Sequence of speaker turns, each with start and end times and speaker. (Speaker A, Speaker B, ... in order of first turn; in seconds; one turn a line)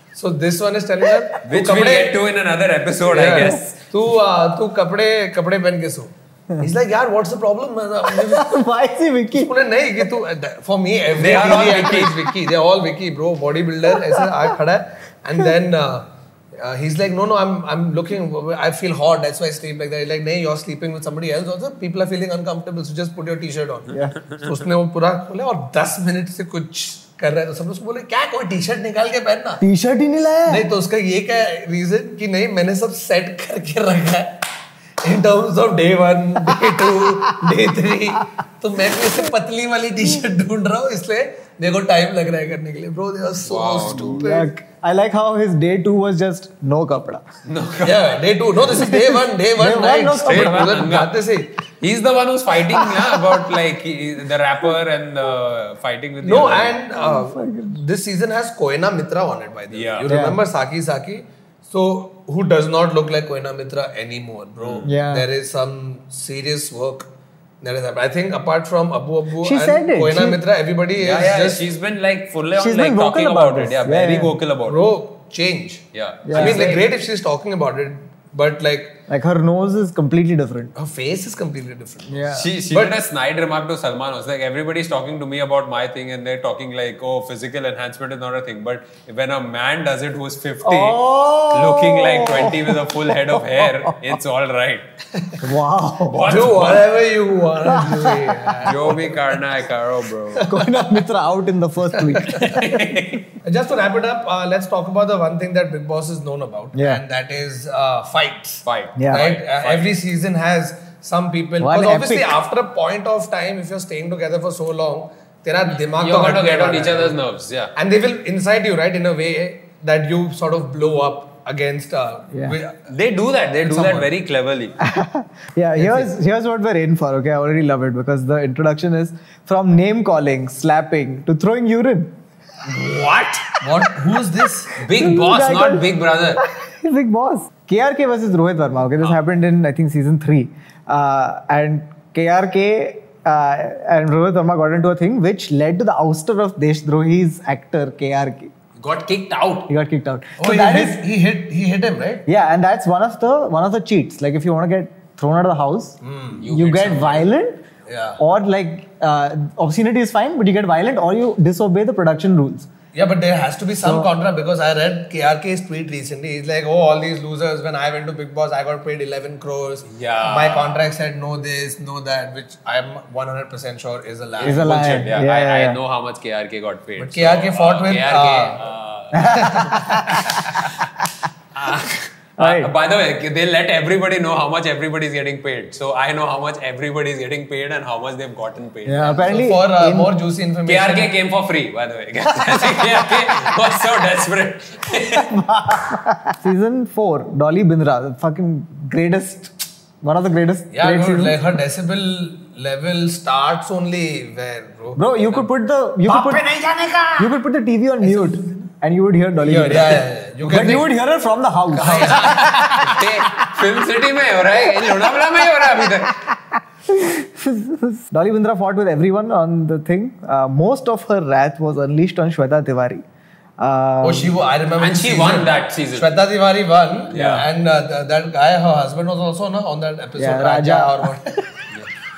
Speaker A: 0.1-2.2
Speaker B: 1.4-3.7
Speaker A: 3.1-8.6
Speaker C: 3.3-3.6
Speaker C: 8.1-10.1
Speaker A: 9.3-29.6
Speaker B: 11.2-12.2
Speaker C: 13.9-14.4
Speaker C: 29.6-30.7
Speaker A: 30.5-34.4
Speaker A: 35.0-44.5
Speaker C: 36.5-37.5
Speaker B: 43.4-44.3
Speaker C: 44.0-47.2
Speaker B: 47.5-48.1
Speaker A: 47.8-51.5
Speaker C: 48.7-50.8
Speaker B: 50.2-51.2
Speaker B: 51.8-56.8
Speaker C: 52.8-53.2
Speaker A: 56.2-67.1
Speaker C: 56.9-57.8
Speaker B: 59.7-60.1
Speaker C: 60.1-60.4
Speaker B: 64.6-64.9
Speaker C: 64.8-65.2
Speaker A: 67.6-71.6
Speaker C: 69.4-70.4
Speaker B: 71.0-74.8
Speaker C: 72.5-74.3
Speaker A: 74.7-79.0
Speaker B: 75.9-76.9
Speaker C: 76.2-76.7
Speaker C: 79.1-80.7
Speaker A: 80.8-83.0
Speaker C: 82.1-82.5
Speaker B: 82.3-94.8
Speaker C: 90.6-94.2
Speaker C: 95.4-96.4
Speaker B: 96.1-96.8
Speaker A: 96.2-99.2
Speaker C: 97.6-98.6
Speaker B: 98.6-100.6
Speaker A: 100.3-100.7
Speaker C: 100.4-103.0
Speaker A: 101.9-102.6
Speaker B: 102.3-103.2
Speaker A: 103.4-117.2
Speaker C: 106.7-107.0
Speaker B: 108.6-109.9
Speaker C: 109.0-109.2
Speaker C: 111.6-112.3
Speaker B: 115.9-117.7
Speaker A: 117.7-122.9
Speaker B: 122.9-124.8
Speaker A: 123.7-124.1
Speaker C: 124.8-132.1
Speaker A: 125.8-126.1
Speaker B: 132.6-133.5
Speaker A: 133.6-134.7
Speaker B: 134.7-136.4
Speaker C: 134.9-148.5
Speaker B: 148.8-149.7
Speaker C: 149.7-151.0
Speaker A: 150.4-152.3
Speaker C: 152.2-157.6
Speaker A: 156.0-156.4
Speaker B: 156.4-157.3
Speaker A: 157.9-158.2
Speaker C: 158.2-162.7
Speaker A: 162.9-174.7
Speaker C: 163.8-164.1
Speaker B: 169.9-170.8
Speaker B: 174.4-180.9
Speaker C: 174.4-175.8
Speaker A: 177.0-178.6
Speaker C: 179.1-180.7
Speaker A: 179.2-180.7
Speaker B: 181.6-189.4
Speaker C: 182.4-182.7
Speaker C: 188.8-190.1
Speaker A: 189.2-191.1
Speaker B: 190.7-195.3
Speaker C: 192.4-192.9
Speaker C: 194.9-201.4
Speaker A: 200.7-205.2
Speaker C: 205.0-206.5
Speaker A: 206.1-207.3
Speaker C: 207.2-212.4
Speaker A: 208.0-208.7
Speaker A: 209.4-210.9
Speaker B: 210.5-210.8
Speaker A: 211.7-213.0
Speaker B: 211.8-216.2
Speaker C: 214.8-216.3
Speaker C: 216.9-223.0
Speaker C: 223.6-224.3
Speaker A: 224.0-231.4
Speaker B: 224.8-226.2
Speaker B: 227.1-227.4
Speaker C: 230.2-231.2